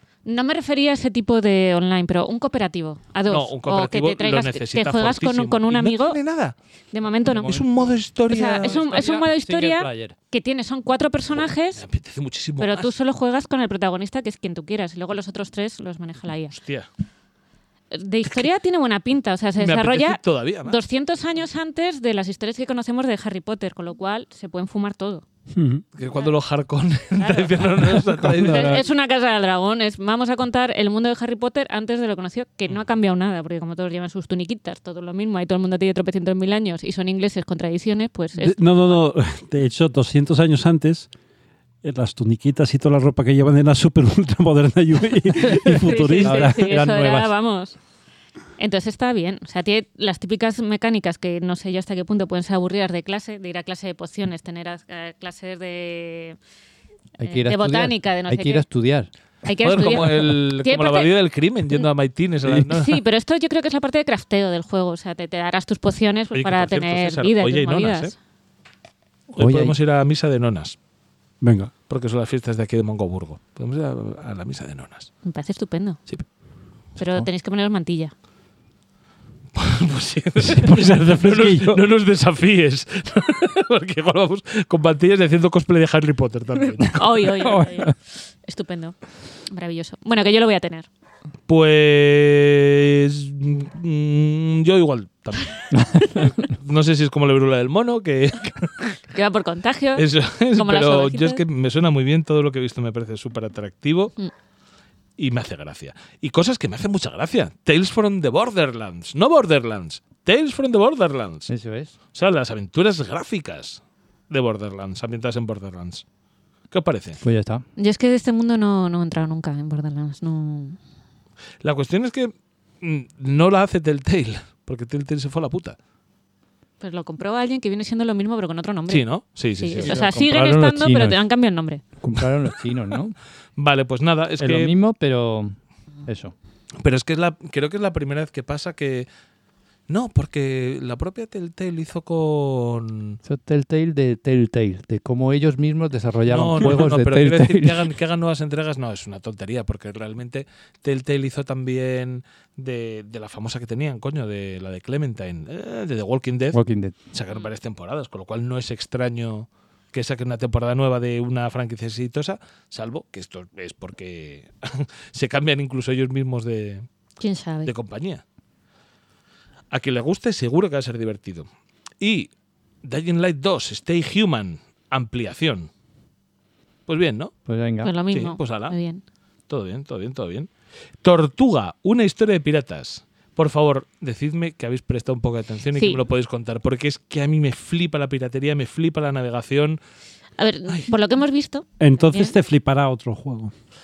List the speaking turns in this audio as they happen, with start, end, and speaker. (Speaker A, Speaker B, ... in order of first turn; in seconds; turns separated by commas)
Speaker A: 0.2-6.2, Speaker B: 3.3-6.5, Speaker A: 6.9-7.6, Speaker C: 7.3-7.7, Speaker B: 7.3-8.8, Speaker A: 8.3-11.8, Speaker C: 8.5-10.1, Speaker B: 11.8-12.9, Speaker A: 12.6-16.5, Speaker B: 16.5-16.9, Speaker A: 17.9-25.2, Speaker B: 19.6-20.8, Speaker D: 25.5-25.8, Speaker B: 26.0-28.8, Speaker A: 27.2-39.0, Speaker D: 38.4-41.1, Speaker D: 41.8-47.2, Speaker C: 45.5-47.2, Speaker A: 45.6-47.8, Speaker A: 48.6-56.4, Speaker C: 57.2-59.1, Speaker A: 57.2-58.7, Speaker A: 59.5-61.1, Speaker B: 59.6-63.0, Speaker A: 62.7-68.1, Speaker B: 66.3-68.1, Speaker B: 69.3-70.8, Speaker C: 69.4-69.8, Speaker D: 71.4-71.7, Speaker B: 71.9-75.1, Speaker A: 75.2-76.0, Speaker A: 77.0-78.1, Speaker B: 79.5-87.0, Speaker D: 80.4-81.8, Speaker A: 86.9-89.0, Speaker C: 87.4-87.9, Speaker A: 89.5-90.9, Speaker B: 91.5-99.0, Speaker A: 99.1-101.4, Speaker B: 100.0-104.2, Speaker B: 105.2-111.5, Speaker C: 111.5-111.9, Speaker B: 112.1-116.0, Speaker B: 116.7-117.2, Speaker C: 117.2-117.6, Speaker A: 117.8-120.8, Speaker B: 121.6-125.8, Speaker A: 126.8-129.1, Speaker B: 128.9-130.2, Speaker A: 129.6-131.8, Speaker C: 129.8-131.2, Speaker C: 132.0-133.2, Speaker B: 133.6-134.7, Speaker C: 134.4-136.3, Speaker B: 136.8-139.1, Speaker B: 139.9-143.2, Speaker C: 143.2-147.9, Speaker B: 146.3-156.6, Speaker C: 156.5-157.0, Speaker B: 157.1-166.9, Speaker A: 167.2-167.7, Speaker B: 167.6-168.2, Speaker B: 169.7-171.5, Speaker B: 172.0-172.3, Speaker B: 172.8-175.7, Speaker B: 176.9-177.3, Speaker C: 177.5-177.9, Speaker A: 177.8-179.0, Speaker B: 178.1-178.8, Speaker B: 179.5-180.5, Speaker B: 181.0-189.8, Speaker A: 185.8-186.0, Speaker A: 190.4-192.3, Speaker D: 191.8-193.5